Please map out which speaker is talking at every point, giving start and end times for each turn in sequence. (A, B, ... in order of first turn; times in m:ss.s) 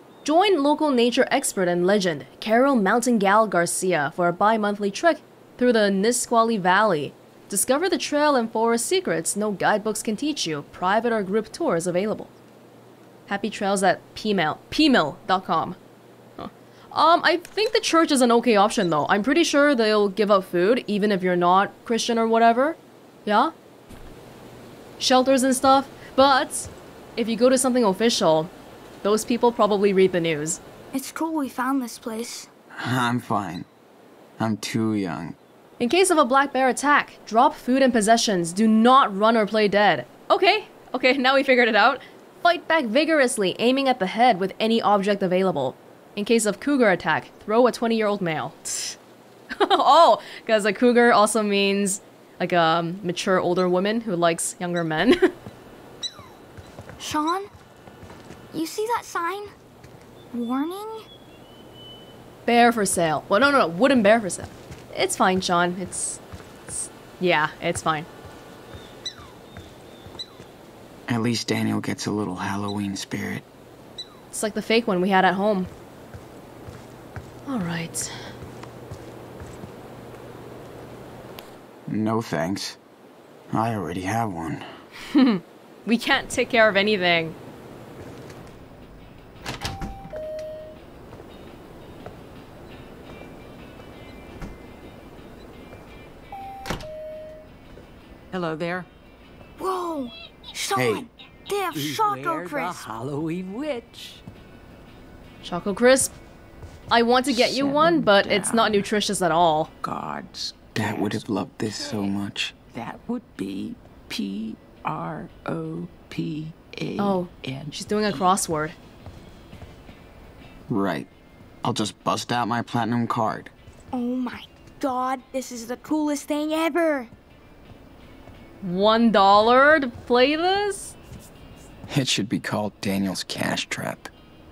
0:00.2-0:12.3 A
0:13.3-0:15.8 A
0:16.4-0:23.5 A
0:25.0-0:28.5 A
0:29.0-0:30.6 A
0:30.9-0:32.5 B
0:32.7-0:33.7 C
0:34.4-0:35.4 C
0:35.8-0:49.0 A
0:49.6-0:55.3 A
0:57.0-0:57.5 B
0:58.5-0:59.5 B
1:00.3-1:01.1 B
1:02.5-1:08.1 A
1:11.1-1:13.4 C
1:14.3-1:15.7 A
1:17.5-1:18.1 A
1:21.9-1:22.8 C
1:23.5-1:24.7 C
1:25.1-1:27.3 A
1:38.3-1:38.9 D
1:39.6-1:42.9 B
1:40.7-1:41.1 C
1:41.7-1:44.2 D
1:45.4-1:46.1 A
1:46.9-1:49.7 A
1:47.3-1:48.8 D
1:49.8-1:51.2 D
1:50.7-1:52.5 C
1:52.7-1:58.3 D
1:57.0-1:58.8 A
2:00.7-2:01.1 C
2:01.6-2:03.5 C
2:03.9-2:07.1 B
2:08.6-2:10.9 A
2:11.9-2:14.1 C